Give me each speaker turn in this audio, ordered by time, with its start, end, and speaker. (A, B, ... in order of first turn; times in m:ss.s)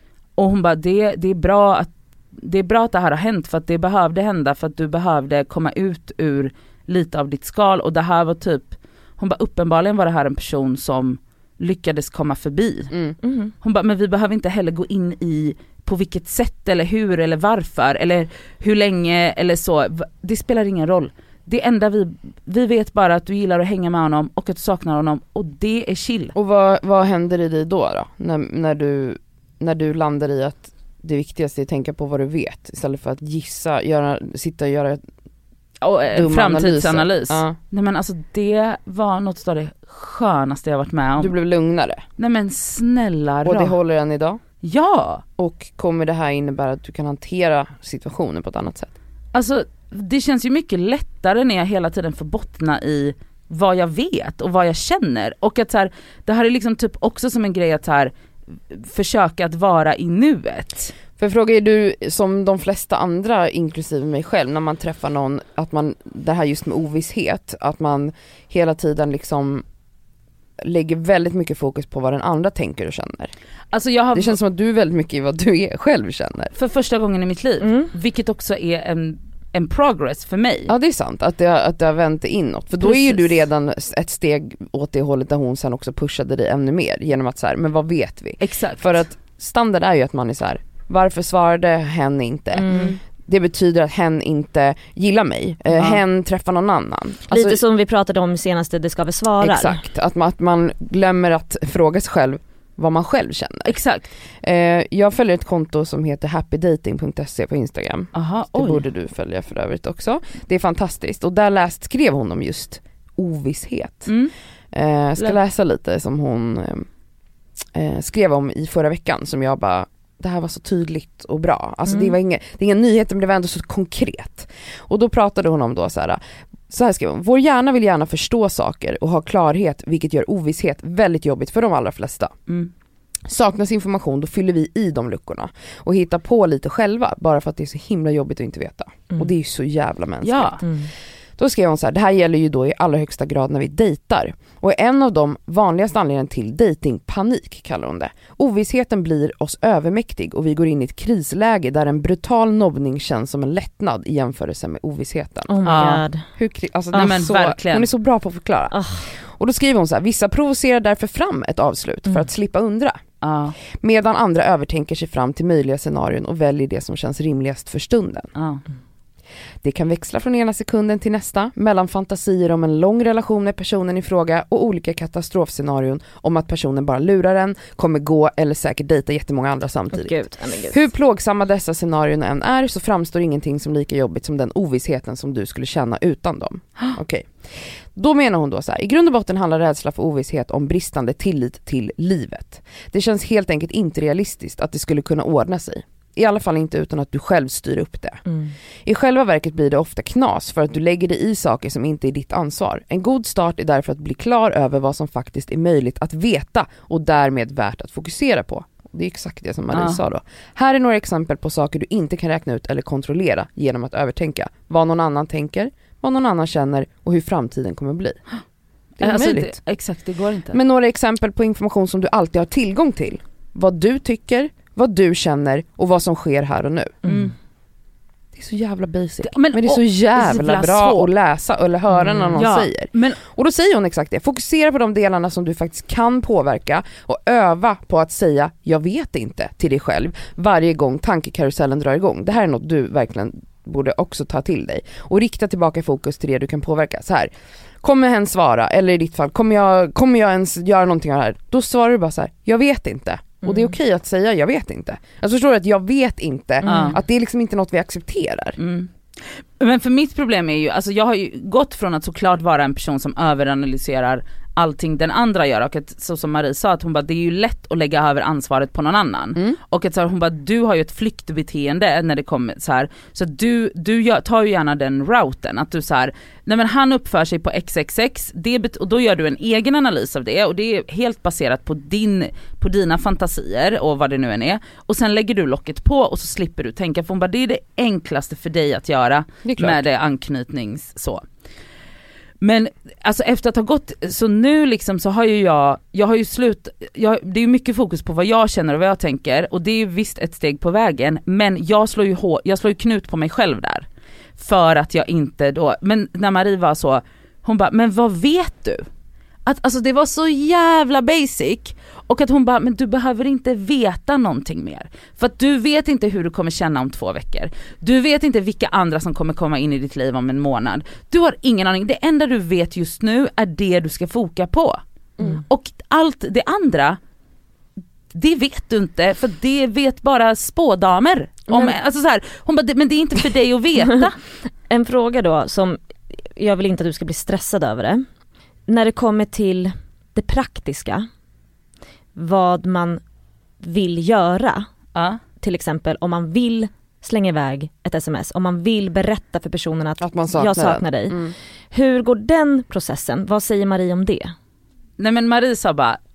0:00.4-0:12.9 A
0:13.2-0:13.5 B
0:13.6-0:26.4 A
0:26.4-0:35.0 C
0:35.8-0:41.3 A
0:36.1-0:37.6 C
0:41.2-0:42.0 C
0:42.2-0:43.8 A
0:43.4-0:44.4 C
0:44.6-0:45.2 A
0:45.4-0:48.9 C
0:49.3-0:58.1 A
0:58.7-1:00.9 A
1:01.2-1:09.6 C
1:10.6-1:13.3 C
1:13.7-1:14.4 A
1:14.1-1:16.5 C
1:16.6-1:20.7 A
1:17.6-1:17.9 B
1:20.7-1:37.6 C
1:22.8-1:23.4 A
1:28.4-1:29.0 A
1:32.6-1:32.9 B
1:32.7-1:33.0 A
1:35.8-1:36.0 A
1:37.3-1:39.8 B
1:39.4-1:43.8 C
1:43.7-1:44.1 A
1:44.4-1:54.1 C
1:48.2-1:48.8 A
1:54.1-1:54.3 A
1:54.7-1:56.9 C
1:57.7-2:12.3 C
2:01.9-2:02.1 B
2:13.3-2:20.6 C
2:20.2-2:20.6 A
2:20.6-2:20.9 B
2:21.4-2:35.5 C
2:35.5-2:36.3 B
2:35.6-2:36.0 A
2:36.4-2:43.0 C
2:36.9-2:37.9 A
2:38.7-2:39.1 B
2:43.2-2:43.6 A
2:43.8-2:48.3 C
2:48.4-2:48.6 A
2:49.6-3:07.3 C
2:59.9-3:00.8 B
3:08.0-3:18.2 C
3:18.8-3:38.2 C
3:29.7-3:30.0 A
3:39.0-3:39.6 C
3:39.0-3:40.6 A
3:40.5-3:47.0 C
3:47.0-3:47.3 B
3:47.1-3:47.3 A
3:48.4-4:18.6 C
3:49.2-3:51.1 A
3:52.0-3:52.4 B
3:52.3-3:53.2 A
4:13.4-4:13.7 B
4:16.6-4:17.0 B
4:16.7-4:17.0 A
4:18.6-4:51.2 A
4:49.4-4:49.8 C
4:52.4-5:03.9 A
5:04.4-5:08.9 A
5:09.5-5:24.8 A
5:25.4-5:27.0 A
5:28.1-5:34.2 A
5:31.5-5:31.8 B
5:34.7-5:38.0 B
5:38.7-5:41.1 B
5:42.2-5:43.0 B
5:43.6-5:44.7 B
5:45.0-5:45.2 A
5:45.4-5:51.2 B
5:50.0-5:51.4 C
5:51.7-5:54.3 B
5:55.0-5:56.0 A